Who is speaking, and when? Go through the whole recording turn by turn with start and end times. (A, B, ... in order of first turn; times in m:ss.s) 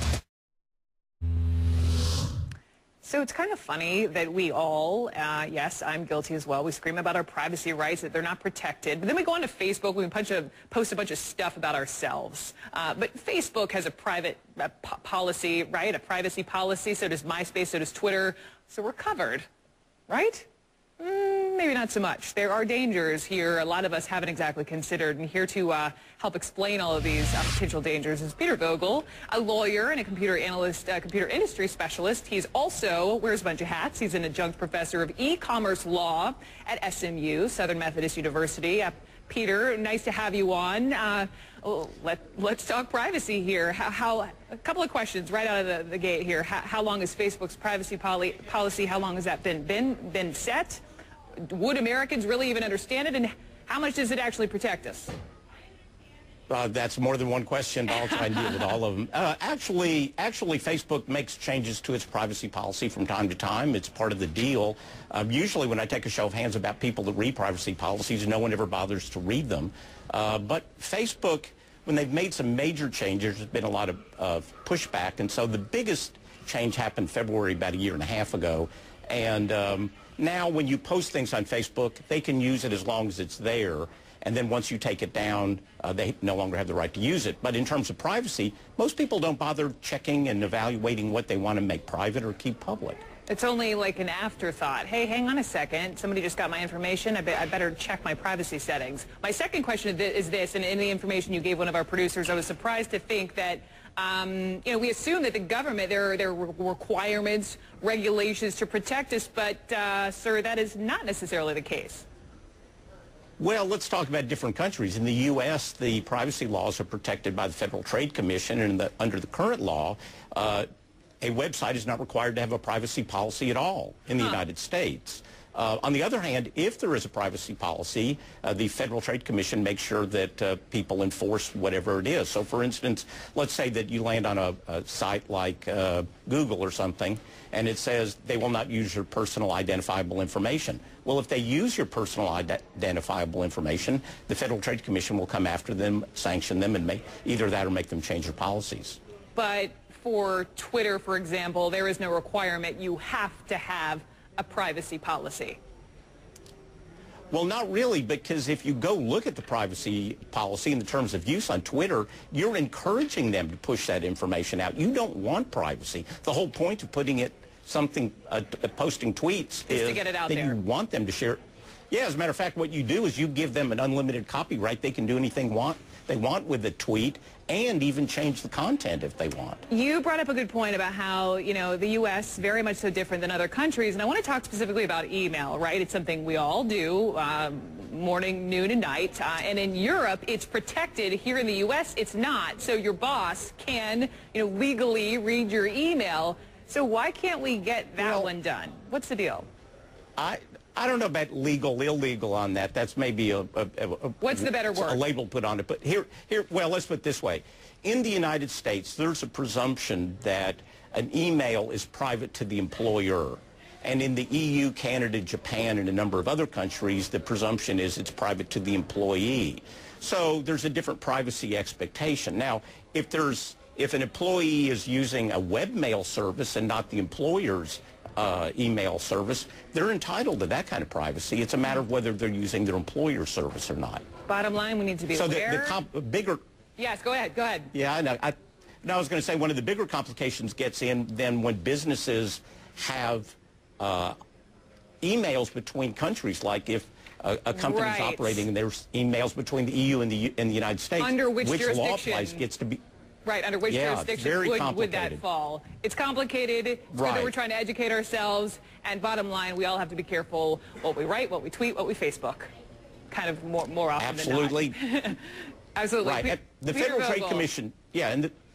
0:03.0-0:19.5 A
0:20.1-0:20.5 A
0:21.0-0:50.8 A
0:51.4-0:55.1 A
0:56.5-1:33.0 B
1:33.3-1:52.0 A
1:53.4-2:00.7 B
2:01.2-2:29.0 B
2:29.4-2:35.6 A
2:37.3-2:59.6 B
2:49.7-2:50.6 A
2:59.7-3:19.5 A
3:18.0-3:18.3 B
3:20.2-3:54.0 B
3:24.2-3:25.0 A
3:54.3-3:55.8 A
3:55.1-3:56.4 B
3:56.8-3:57.7 A
3:57.7-4:04.2 B
4:05.0-4:12.8 B
4:07.5-4:08.5 A
4:11.0-4:12.4 A
4:13.2-4:22.5 A
4:13.6-4:15.2 B
4:16.9-4:17.3 B
4:23.1-4:27.5 A
4:24.0-4:24.8 B
4:26.0-4:28.3 B